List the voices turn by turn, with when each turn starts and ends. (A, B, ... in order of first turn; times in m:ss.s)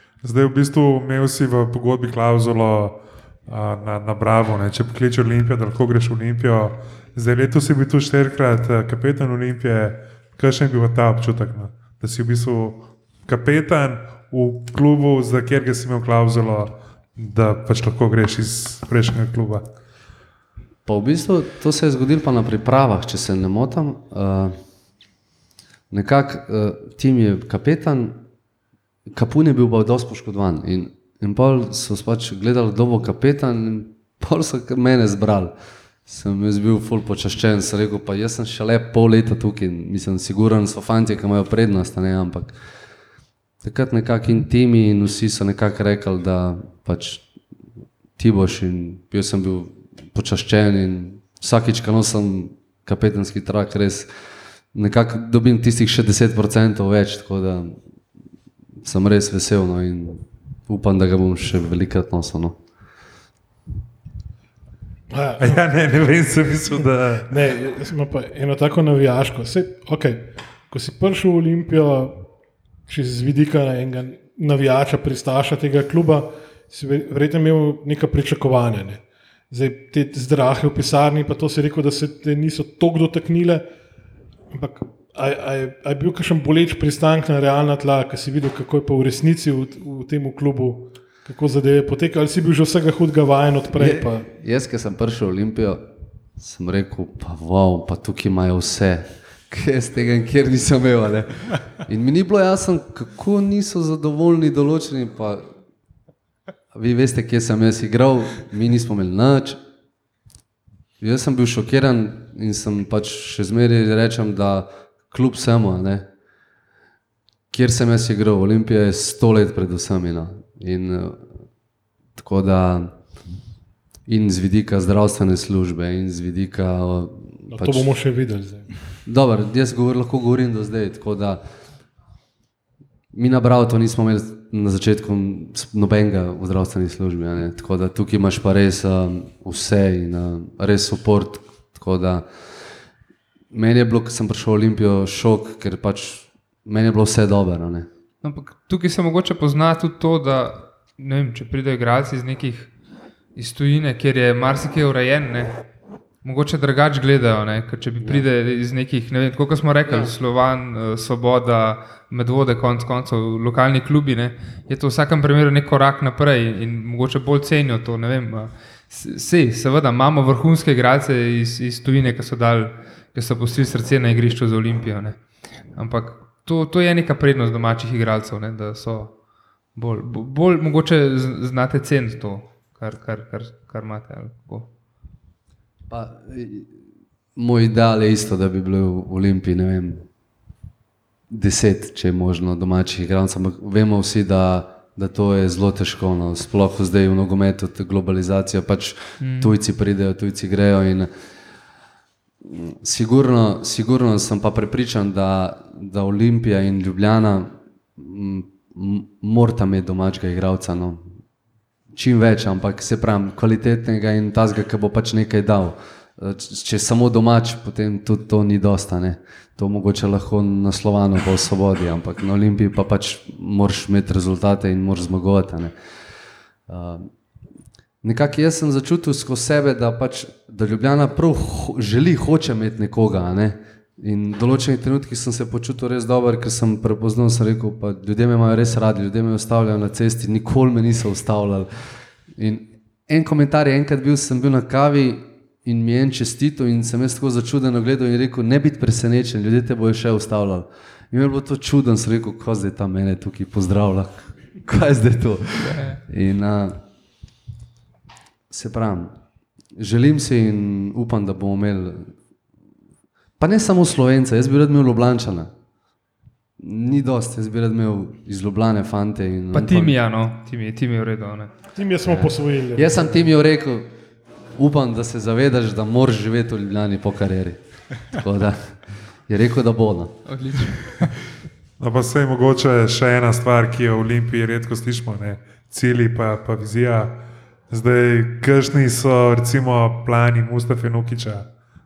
0:00.2-0:19.6 A
0:20.8-0:24.6 B
0:25.9-0:28.2 B
0:29.1-0:35.5 B
0:36.0-0:42.5 B
0:43.6-0:47.2 B
0:48.2-0:54.1 B
0:54.7-0:57.8 B
0:58.8-1:02.6 B
1:05.1-1:05.6 C
1:05.4-1:07.3 A
1:07.3-1:12.3 C
1:12.9-1:23.6 C
1:24.5-1:34.2 C
1:33.8-1:35.8 B
1:36.4-1:45.5 B
1:46.7-1:49.6 B
1:51.0-1:56.1 B
1:57.5-2:01.2 B
2:02.2-2:02.9 B
2:04.1-2:07.9 B
2:07.5-2:08.7 C
2:09.0-2:11.4 B
2:13.1-2:22.3 B
2:23.5-2:27.9 B
2:28.2-2:32.7 D
2:33.4-2:35.6 D
2:36.2-2:55.2 D
2:39.8-2:40.1 B
2:55.8-2:59.1 D
2:59.8-3:04.7 D
3:05.9-3:06.7 B
3:07.4-3:10.0 B
3:11.3-3:21.1 B
3:19.2-3:19.5 D
3:22.4-3:31.1 B
3:31.9-3:45.7 B
3:46.7-3:47.1 B
3:48.0-4:01.7 B
4:02.4-4:16.8 B
4:15.6-4:16.0 D
4:18.5-4:19.1 B
4:19.8-4:22.1 B
4:23.4-4:25.5 B
4:26.6-4:29.9 B
4:29.5-4:31.5 D
4:31.7-4:33.3 C
4:32.1-4:33.9 B
4:34.6-4:37.6 B
4:38.1-4:38.8 B
4:39.3-4:40.2 B
4:40.2-4:41.1 D
4:41.8-4:51.4 A